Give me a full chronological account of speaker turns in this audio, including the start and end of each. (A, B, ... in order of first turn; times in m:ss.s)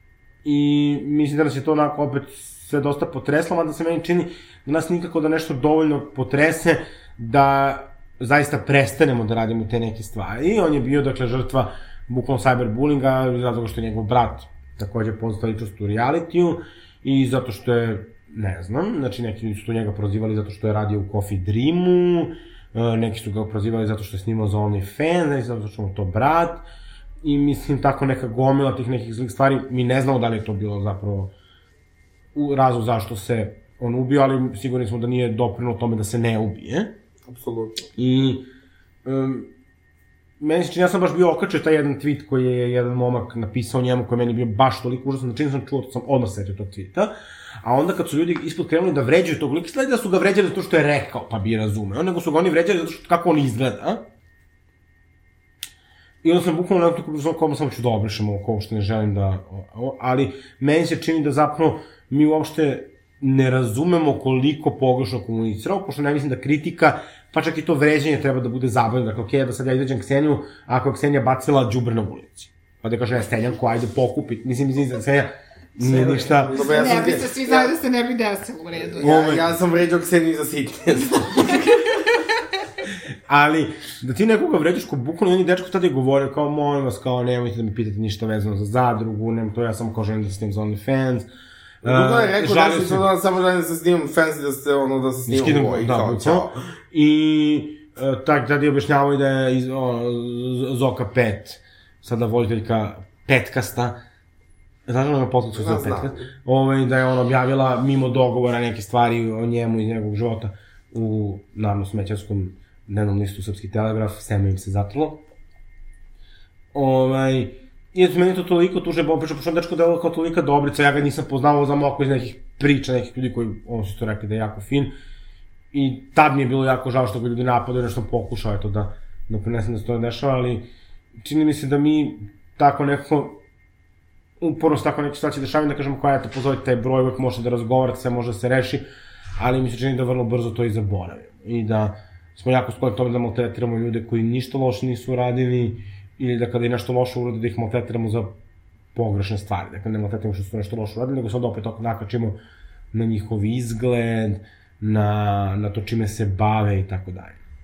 0:00.4-0:26.6 A
0:27.2-0:31.3 A
0:32.3-0:36.9 A
0:37.3-0:37.9 B
0:38.0-0:38.5 A
0:39.0-0:39.5 A
0:40.4-0:54.0 A
0:56.2-1:16.7 A
1:15.8-1:17.7 B
1:16.6-1:19.3 C
1:19.0-1:21.8 B
1:19.0-1:19.5 A
1:23.3-1:31.3 A
1:31.8-1:33.1 A
1:31.8-1:36.6 B
1:35.3-1:44.0 A
1:44.9-1:55.2 A
1:45.6-1:46.3 B
1:56.7-2:04.9 A
2:05.7-2:10.7 A
2:11.2-2:13.4 A
2:14.4-2:18.8 A
2:19.4-2:28.3 A
2:28.9-2:32.4 A
2:32.9-2:37.4 A